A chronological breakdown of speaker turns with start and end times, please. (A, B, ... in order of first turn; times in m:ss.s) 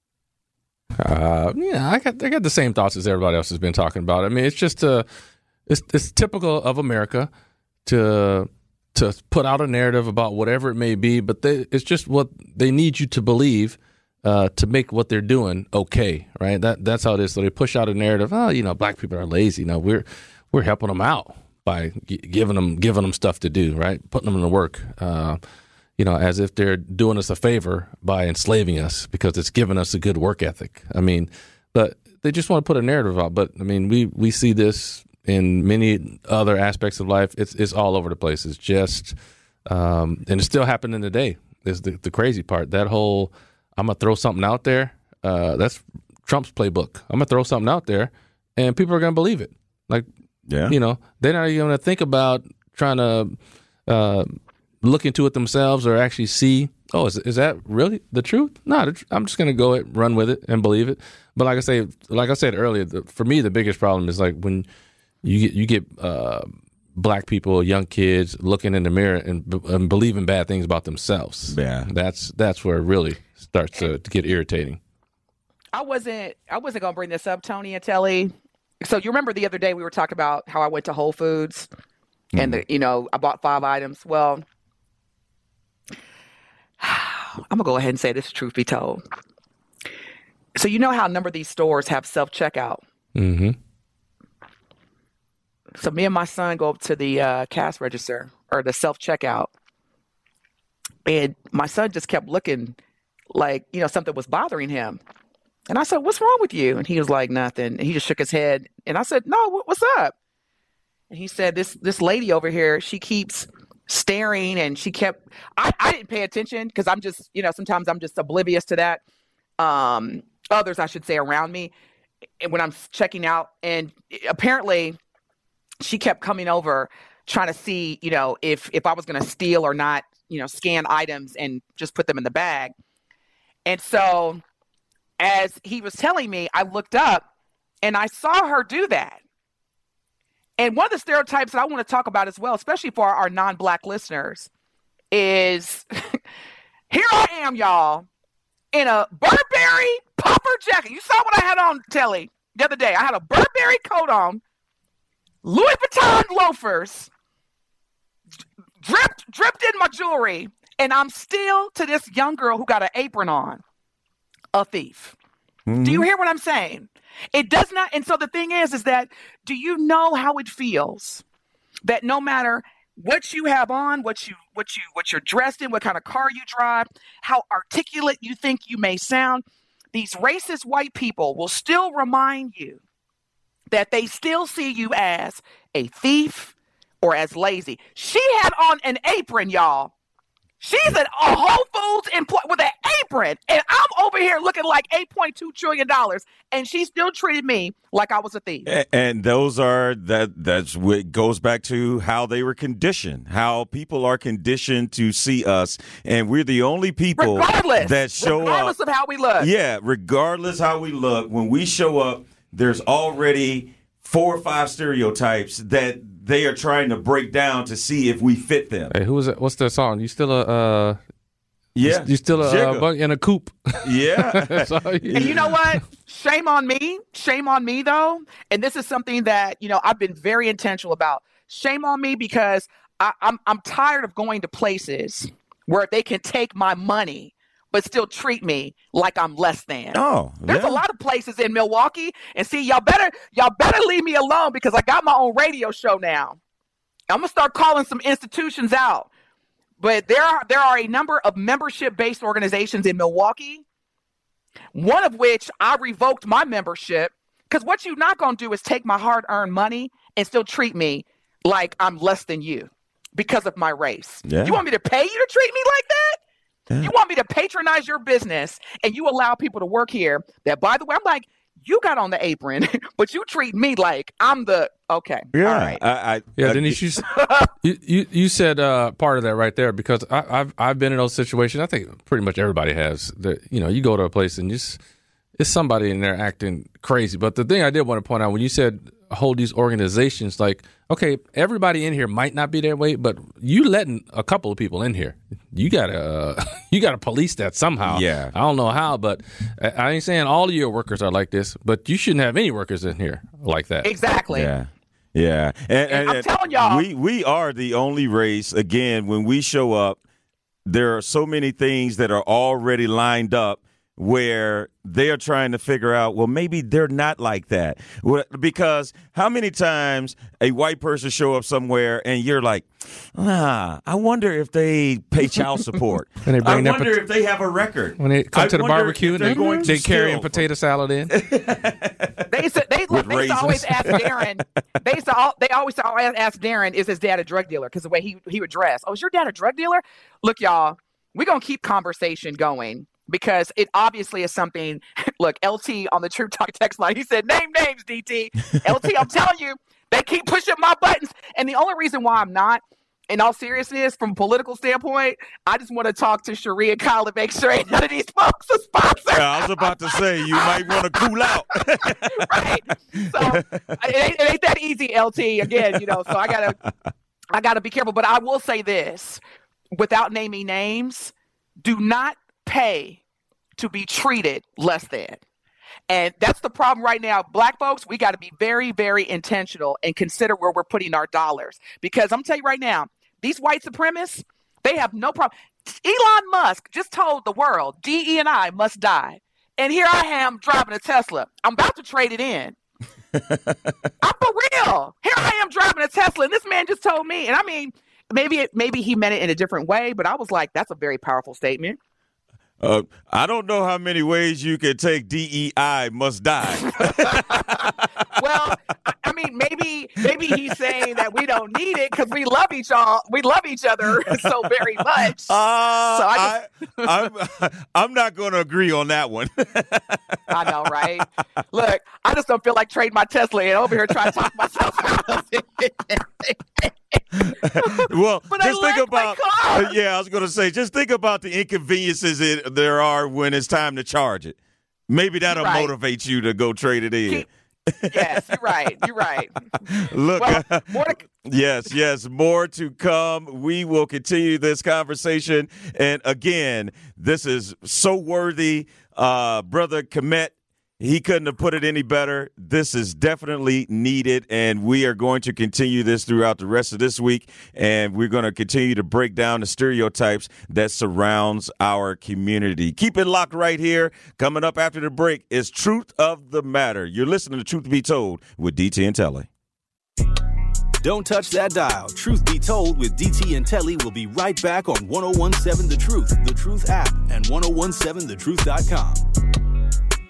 0:01.0-0:05.0 A
0:05.7-0:07.3 A
0:07.8-0:25.4 A
0:26.0-0:50.1 A
0:50.5-0:50.7 B
0:50.7-1:04.7 A
1:05.2-1:14.8 A
1:11.5-1:11.9 B
1:15.7-1:21.7 C
1:22.3-1:22.6 B
1:22.4-1:24.4 C
1:26.8-1:29.0 C
1:30.6-1:32.8 C
1:33.1-1:33.6 A
1:35.8-1:39.5 C
1:41.0-1:42.8 C
1:43.3-1:45.0 C
1:45.7-1:50.1 C
1:51.1-1:59.0 C
1:59.6-2:01.7 C
2:02.4-2:05.0 C
2:05.8-2:12.7 C
2:13.6-2:14.4 C
2:15.2-2:17.2 C
2:17.8-2:19.2 C
2:20.6-2:24.5 C
2:25.1-2:26.2 C
2:26.9-2:28.1 C
2:28.7-2:34.4 C
2:35.4-2:37.1 C
2:38.8-2:43.6 C
2:44.5-2:45.1 C
2:45.7-2:46.1 B
2:45.8-2:51.2 C
2:51.8-3:02.8 C
3:03.7-3:09.9 C
3:10.6-3:18.7 C
3:18.6-3:28.7 B
3:27.2-3:29.5 C
3:29.4-3:38.9 B
3:38.9-3:41.0 A
3:41.7-3:42.9 B
3:41.8-3:45.4 A
3:43.8-3:45.4 B
3:45.1-4:06.4 C
3:59.9-4:00.8 B
4:07.1-4:09.1 C
4:09.8-4:13.6 C
4:14.7-4:26.2 C
4:24.2-4:24.6 B
4:26.8-4:35.8 C
4:35.3-4:37.0 B
4:36.4-4:37.0 A
4:37.1-4:37.5 C
4:37.6-4:44.8 A
4:45.4-5:03.9 A
4:57.8-4:58.3 B
5:03.8-5:04.5 C
5:04.3-5:10.0 B
5:05.9-5:06.8 C
5:10.6-5:30.5 B
5:26.2-5:27.0 A
5:28.0-5:31.2 A
5:31.1-5:32.3 B
5:32.3-6:01.1 C
5:32.9-5:34.3 B
5:59.1-6:02.4 B
6:01.8-6:06.6 C
6:03.2-6:03.7 B
6:05.5-6:06.3 B
6:07.3-6:09.2 C
6:09.7-6:11.1 C
6:11.6-6:13.0 C
6:13.6-6:15.2 C
6:15.9-6:32.6 C
6:33.1-6:33.7 B
6:34.0-6:41.8 C
6:42.6-6:48.0 B
6:47.0-6:47.5 C
6:48.2-6:55.3 C
6:55.3-7:00.2 B
6:55.9-6:56.3 C
7:00.3-7:09.7 C
7:07.1-7:14.4 B
7:14.9-7:17.2 B
7:15.3-7:15.7 C
7:17.8-7:18.5 B
7:17.8-7:19.4 C
7:19.7-7:49.3 B
7:20.2-7:21.0 C
7:50.8-7:59.0 D